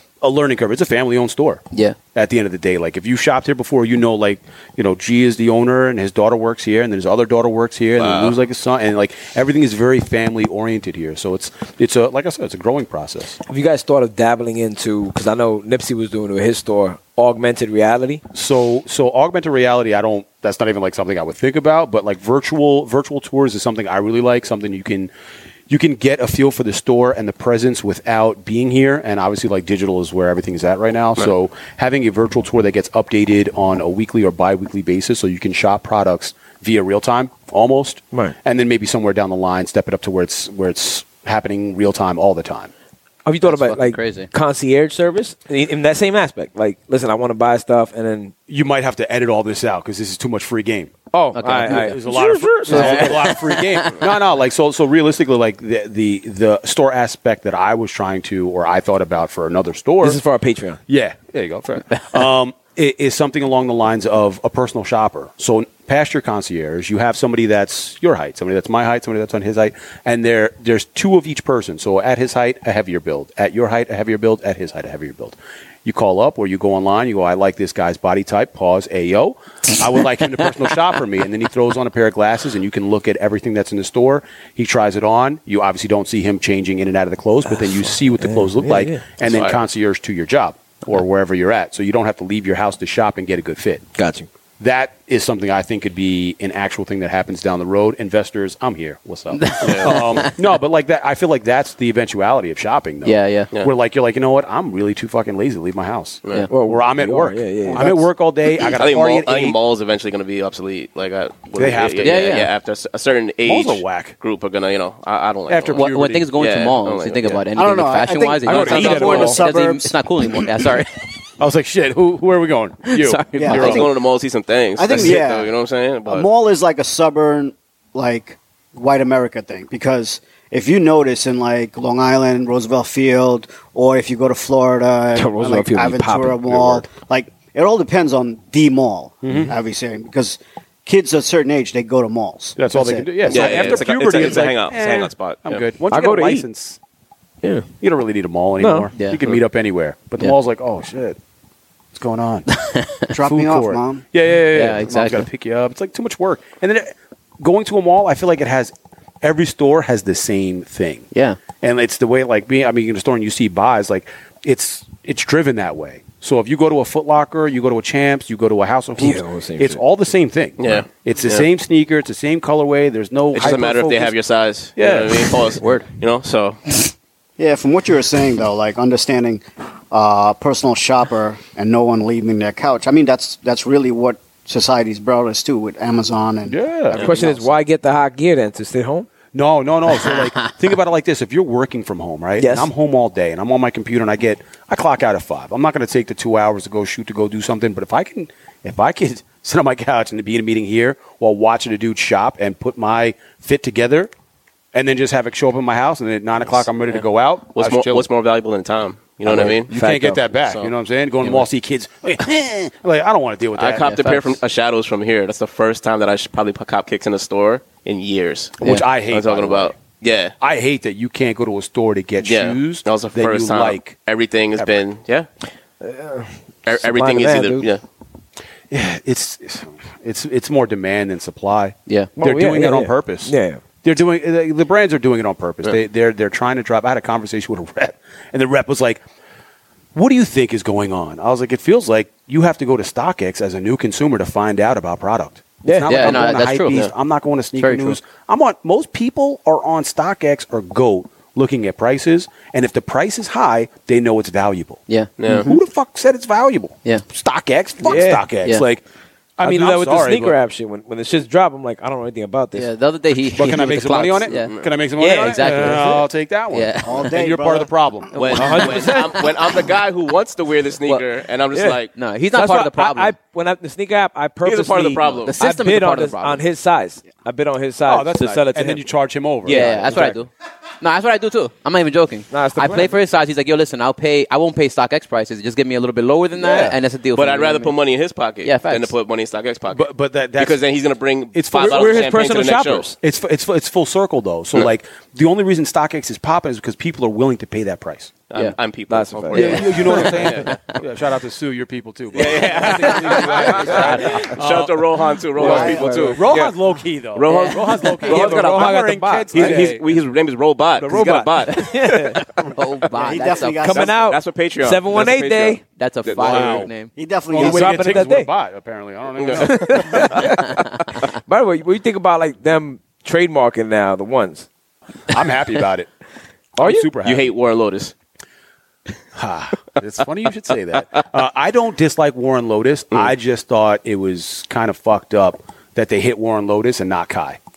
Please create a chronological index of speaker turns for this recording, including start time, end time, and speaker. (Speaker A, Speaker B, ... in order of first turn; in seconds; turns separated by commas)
Speaker A: 0.2-13.4, Speaker B: 1.7-2.0, Speaker C: 8.0-8.3, Speaker D: 13.5-18.2, Speaker A: 18.3-25.1, Speaker A: 25.7-42.7, Speaker D: 43.2-48.3, Speaker B: 43.4-44.3, Speaker A: 48.5-50.9, Speaker D: 51.1-53.5, Speaker B: 51.3-52.0, Speaker A: 51.6-60.2, Speaker B: 52.6-53.9, Speaker D: 60.0-60.8, Speaker A: 60.9-93.8, Speaker D: 88.2-89.1, Speaker C: 89.2-89.6, Speaker D: 94.0-94.3, Speaker A: 94.6-109.6, Speaker B: 99.4-100.3, Speaker C: 99.6-100.0, Speaker B: 103.0-103.5, Speaker D: 106.5-108.0, Speaker C: 108.6-117.4, Speaker A: 111.5-112.4, Speaker B: 112.0-112.5, Speaker A: 113.4-114.1, Speaker A: 115.5-116.3, Speaker B: 115.7-121.1, Speaker E: 117.5-120.5, Speaker D: 118.4-119.5, Speaker A: 118.6-118.9, Speaker A: 121.4-123.9, Speaker B: 122.9-123.8, Speaker E: 123.3-123.9, Speaker C: 123.5-126.3, Speaker E: 124.8-125.5, Speaker E: 126.0-143.8, Speaker D: 135.1-136.8, Speaker A: 139.2-139.5, Speaker A: 142.6-146.8, Speaker C: 143.3-145.6, Speaker D: 145.9-146.4, Speaker A: 147.8-151.2, Speaker D: 148.6-148.9, Speaker A: 151.9-152.5, Speaker B: 152.5-153.1, Speaker E: 153.1-154.0, Speaker A: 153.2-161.1, Speaker B: 154.5-155.3, Speaker B: 161.1-161.4, Speaker A: 161.6-174.2, Speaker D: 169.0-169.8, Speaker C: 170.6-171.5, Speaker C: 173.3-176.8, Speaker A: 174.8-175.6, Speaker B: 175.6-175.9, Speaker E: 177.4-187.5, Speaker A: 186.4-187.1, Speaker D: 186.9-189.1, Speaker A: 189.3-204.1, Speaker D: 192.4-192.7, Speaker A: 204.7-208.1, Speaker C: 207.5-209.7, Speaker A: 209.2-214.3, Speaker D: 209.7-210.2, Speaker C: 210.4-210.7, Speaker C: 213.6-220.3, Speaker B: 213.8-214.2, Speaker A: 218.6-219.8, Speaker A: 220.4-224.0, Speaker C: 222.2-225.3, Speaker A: 224.6-224.8, Speaker D: 225.8-227.7, Speaker C: 226.7-227.8, Speaker A: 228.7-239.0, Speaker B: 231.9-232.1, Speaker D: 232.2-233.6, Speaker A: 239.9-254.8, Speaker D: 245.6-246.3, Speaker B: 245.9-246.8, Speaker B: 247.6-248.0, Speaker B: 254.9-255.5, Speaker C: 255.2-255.5, Speaker A: 255.3-258.8, Speaker D: 257.8-258.2, Speaker A: 259.4-260.4, Speaker D: 259.4-262.7, Speaker B: 262.5-264.6, Speaker A: 263.3-268.6, Speaker C: 264.3-264.6, Speaker D: 265.0-266.0, Speaker B: 265.1-266.0, Speaker B: 266.5-267.1, Speaker E: 266.8-267.7, Speaker C: 268.1-271.9, Speaker D: 268.3-269.3, Speaker D: 271.5-271.8, Speaker B: 271.9-273.1, Speaker D: 272.3-278.8, Speaker C: 274.4-275.3, Speaker B: 275.2-276.4, Speaker A: 277.9-279.7, Speaker D: 279.4-280.2, Speaker B: 279.5-280.3, Speaker B: 280.8-287.7, Speaker D: 282.3-283.0, Speaker A: 286.4-286.8, Speaker C: 287.1-292.9, Speaker B: 288.4-288.9, Speaker A: 289.7-290.6, Speaker A: 291.3-292.3, Speaker D: 291.6-292.9, Speaker A: 293.0-298.2, Speaker C: 298.3-300.5, Speaker D: 298.9-300.2, Speaker A: 299.3-309.8, Speaker C: 302.1-306.3, Speaker D: 303.1-304.3, Speaker E: 305.4-306.0, Speaker D: 305.4-306.5, Speaker C: 307.1-308.8, Speaker B: 307.3-307.7, Speaker D: 308.0-309.8, Speaker C: 309.3-312.4, Speaker D: 310.8-312.2, Speaker B: 312.5-313.9, Speaker E: 312.9-314.0, Speaker D: 313.6-315.6, Speaker C: 313.8-316.7, Speaker B: 315.7-316.9, Speaker A: 316.2-316.7, Speaker E: 316.9-318.0, Speaker A: 317.3-320.2, Speaker D: 317.3-318.3, Speaker C: 319.2-320.2, Speaker D: 319.4-324.5, Speaker A: 325.1-325.9, Speaker A: 326.6-327.3, Speaker D: 326.6-326.9, Speaker C: 327.0-327.9, Speaker A: 329.1-337.4